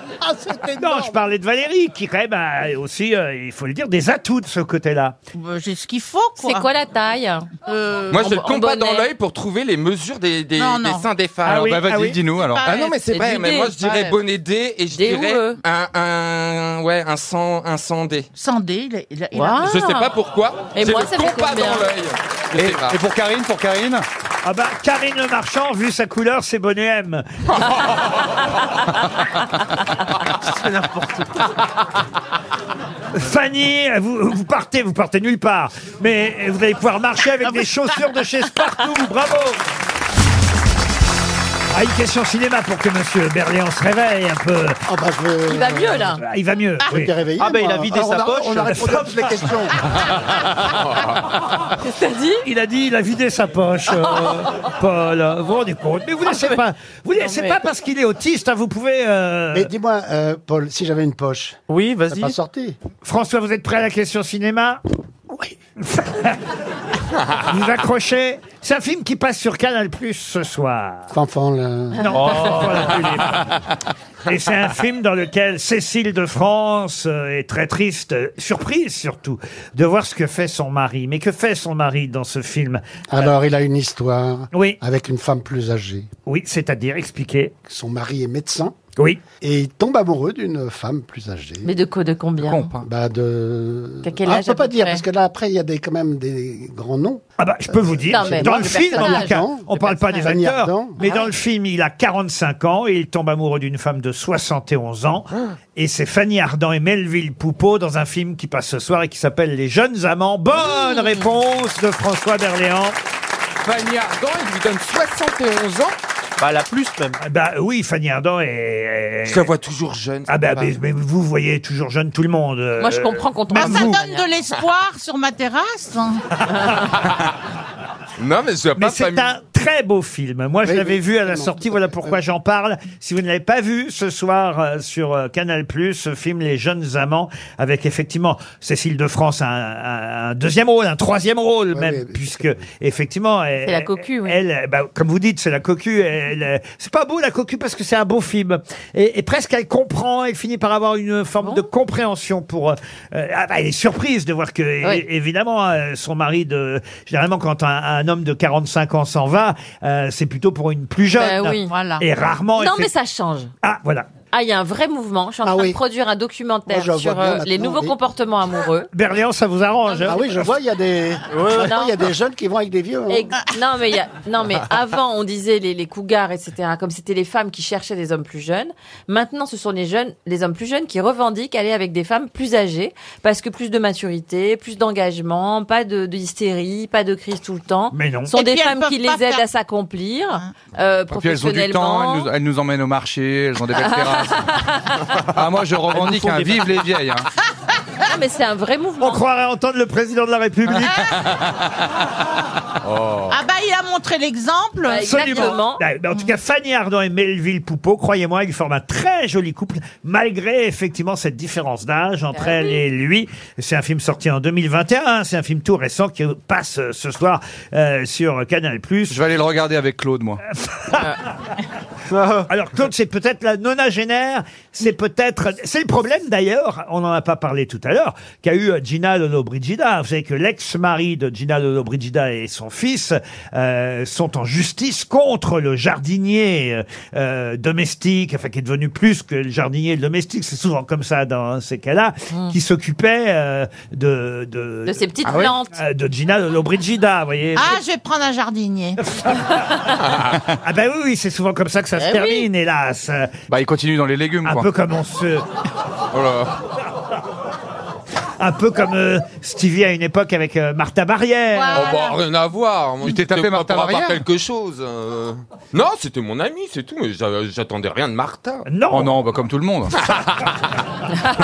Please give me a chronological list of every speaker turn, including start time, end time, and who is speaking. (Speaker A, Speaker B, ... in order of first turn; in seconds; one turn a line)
Speaker A: 0.2-1.2
Speaker B: 0.8-5.2
Speaker C: 5.3-6.7
Speaker D: 6.4-7.5
Speaker C: 7.7-8.4
Speaker E: 8.1-11.9
Speaker D: 8.2-9.1
Speaker C: 10.6-11.1
Speaker B: 11.4-12.2
Speaker F: 11.5-12.7
Speaker C: 12.4-12.9
Speaker E: 12.7-18.3
Speaker D: 13.1-14.2
Speaker D: 14.9-15.6
Speaker C: 18.4-19.9
Speaker D: 19.4-20.1
Speaker E: 19.6-23.0
Speaker D: 20.7-21.9
Speaker F: 22.6-24.1
Speaker B: 24.4-27.3
Speaker G: 30.4-31.4
Speaker B: 33.1-39.6
Speaker B: 41.7-44.8
Speaker A: 44.9-46.1
Speaker D: 45.5-46.2
Speaker B: 46.2-47.1
Speaker A: 46.9-49.7
Speaker G: 47.4-49.2
Speaker B: 48.7-49.1
Speaker E: 50.9-51.2
Speaker D: 51.8-52.4
Speaker B: 52.5-59.7
Speaker D: 57.2-57.6
Speaker A: 59.5-62.8
Speaker G: 61.7-62.4
Speaker B: 63.0-64.8
Speaker A: 65.3-65.5
Speaker B: 65.8-66.4
Speaker B: 67.4-71.1
Speaker A: 71.1-72.2
Speaker B: 72.0-73.5
Speaker G: 72.4-72.7
Speaker B: 74.3-82.8
Speaker A: 83.1-86.1
Speaker B: 84.5-84.8
Speaker B: 86.3-87.5
Speaker A: 87.7-88.8
Speaker A: 89.4-91.7
Speaker D: 91.6-92.8
Speaker F: 92.4-92.8
Speaker A: 92.8-101.0
Speaker D: 94.0-95.0
Speaker B: 97.4-113.0
Speaker D: 98.1-100.3
Speaker D: 101.0-101.3
Speaker E: 113.7-116.0
Speaker G: 116.4-117.2
Speaker B: 117.2-119.5
Speaker E: 119.3-120.7
Speaker B: 120.3-123.9
Speaker D: 122.8-124.3
Speaker C: 123.5-126.2
Speaker E: 128.2-129.3
Speaker B: 128.8-162.9
Speaker A: 130.6-132.2
Speaker A: 141.7-142.6
Speaker D: 143.6-144.4
Speaker D: 161.1-161.7
Speaker C: 161.7-162.0
Speaker D: 162.6-163.5
Speaker B: 163.6-164.1
Speaker D: 164.3-168.9
Speaker A: 165.4-165.8
Speaker A: 166.7-168.0
Speaker B: 168.9-170.5
Speaker A: 170.1-173.3
Speaker G: 171.3-171.7
Speaker D: 171.6-172.0
Speaker D: 173.1-192.3
Speaker B: 187.9-188.3
Speaker C: 188.3-189.5
Speaker F: 191.1-194.5
Speaker D: 193.7-195.0
Speaker F: 195.2-197.3
Speaker G: 195.9-196.9
Speaker D: 198.1-199.2
Speaker B: 199.0-201.1
Speaker F: 203.0-203.3
Speaker C: 203.3-205.6
Speaker D: 204.9-205.8
Speaker B: 205.1-219.2
Speaker D: 212.3-212.8
Speaker F: 219.1-220.4
Speaker B: 220.5-221.2
Speaker D: 220.9-221.2
Speaker G: 222.1-222.5
Speaker B: 222.5-247.8
Speaker D: 244.9-245.8
Speaker C: 247.6-249.0
Speaker B: 249.1-249.6
Speaker E: 250.0-250.4
Speaker B: 250.6-253.3
Speaker D: 252.0-252.5
Speaker F: 253.5-254.7
Speaker B: 254.4-255.4
Speaker E: 256.1-256.6
Speaker B: 258.4-261.9
Speaker C: 261.5-262.2
Speaker E: 261.7-268.7
Speaker F: 263.0-264.2
Speaker B: 268.7-269.1
Speaker F: 268.9-269.9
Speaker E: 269.9-270.7